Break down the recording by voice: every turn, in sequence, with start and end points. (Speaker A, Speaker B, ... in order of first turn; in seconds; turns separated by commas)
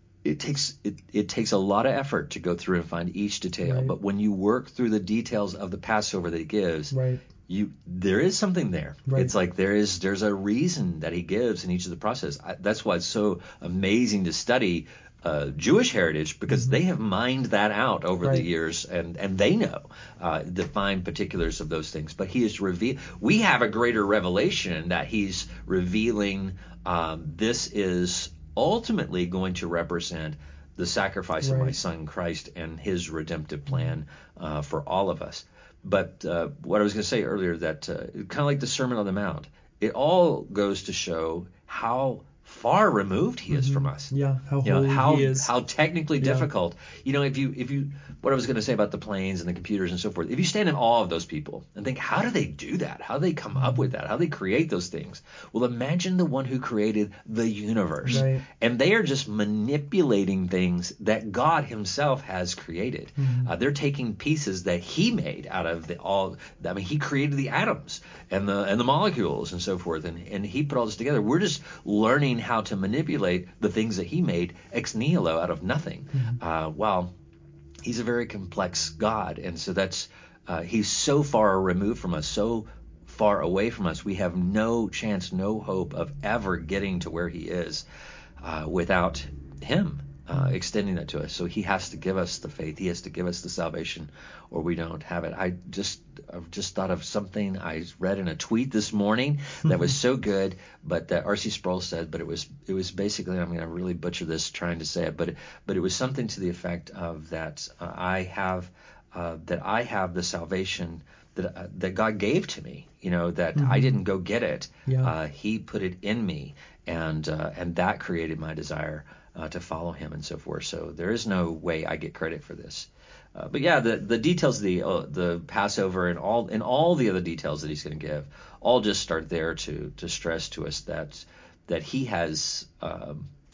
Speaker A: 0.2-6.9, Speaker B: 3.6-3.9, Speaker B: 6.9-7.2, Speaker A: 7.5-44.1, Speaker B: 9.1-9.3, Speaker B: 16.5-16.8, Speaker B: 31.4-31.8, Speaker B: 43.5-45.5, Speaker A: 44.6-77.1, Speaker B: 46.2-46.5, Speaker B: 53.6-53.9, Speaker B: 58.0-58.4, Speaker B: 63.2-63.5, Speaker B: 76.1-76.4, Speaker A: 77.8-87.8, Speaker A: 88.4-133.3, Speaker B: 99.7-99.9, Speaker B: 113.5-114.0, Speaker B: 114.9-115.1